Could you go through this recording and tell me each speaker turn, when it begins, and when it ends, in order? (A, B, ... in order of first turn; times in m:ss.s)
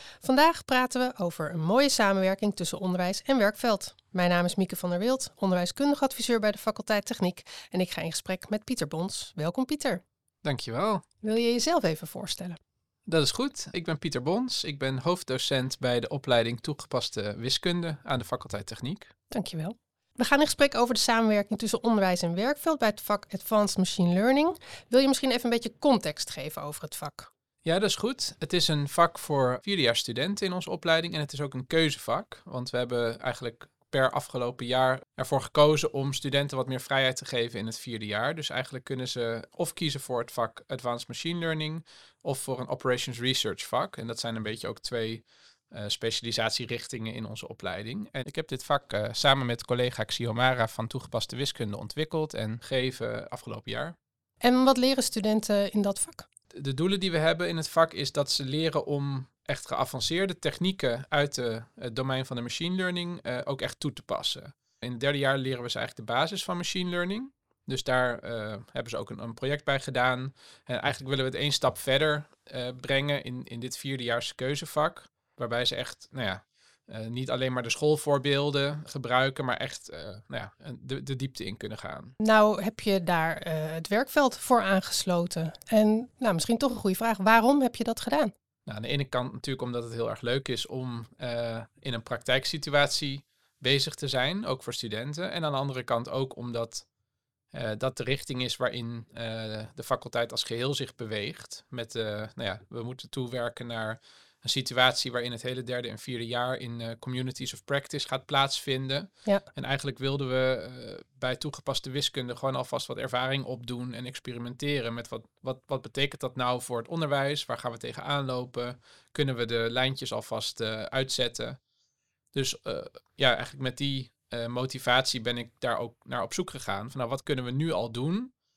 0:00.2-0:10.0 A
0:10.4-0:11.0 B
0:11.2-0:12.6 A
0:13.1-0:19.1 B
0:19.3-0:27.3 A
0:27.6-0:54.0 B
0:54.4-0:56.2 A
0:56.5-1:22.1 B
1:22.2-1:28.3 A
1:28.7-1:36.8 B
1:37.5-2:01.6 B
2:02.3-2:08.3 B